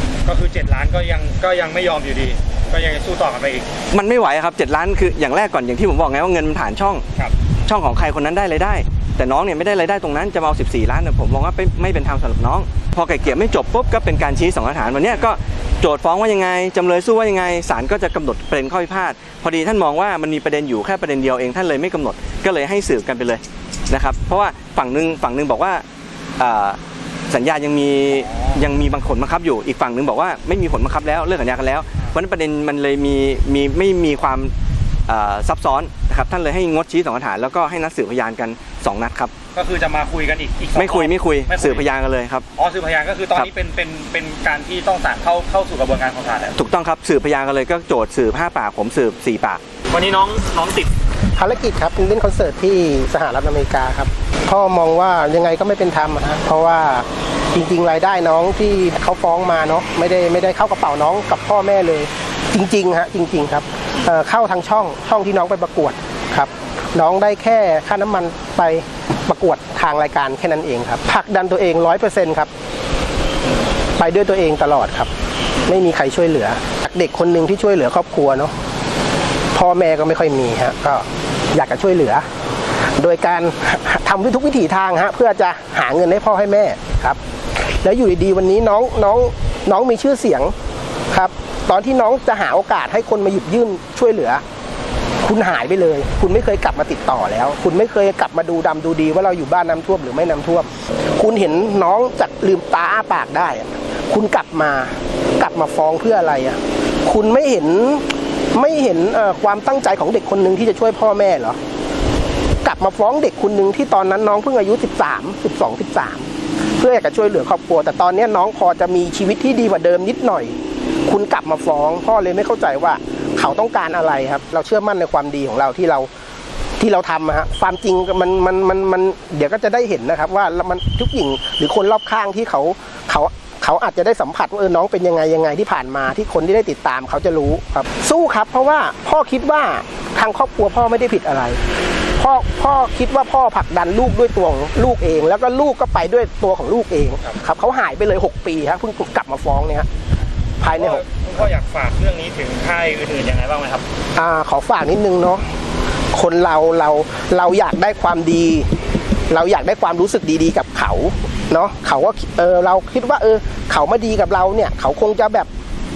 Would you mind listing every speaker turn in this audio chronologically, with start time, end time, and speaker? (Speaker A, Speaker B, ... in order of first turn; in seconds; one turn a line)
Speaker A: 0.2-3.7
Speaker B: 3.9-7.0
Speaker B: 7.7-25.8
Speaker B: 26.4-34.5
Speaker B: 35.1-39.3
Speaker A: 39.5-41.9
Speaker B: 40.8-42.5
Speaker A: 42.5-46.5
Speaker B: 46.5-49.6
Speaker A: 49.9-50.9
Speaker C: 51.4-72.5
Speaker C: 74.0-75.1
Speaker C: 75.6-78.5
Speaker C: 79.5-82.2
Speaker C: 83.0-90.5
Speaker C: 91.1-94.4
Speaker C: 95.2-111.6
Speaker C: 112.6-120.6
Speaker C: 121.1-126.1
Speaker C: 126.8-141.6
Speaker C: 142.2-149.9
Speaker C: 150.6-151.0
Speaker A: 150.7-153.8
Speaker C: 154.2-155.4
Speaker C: 156.1-158.7
Speaker C: 159.3-165.5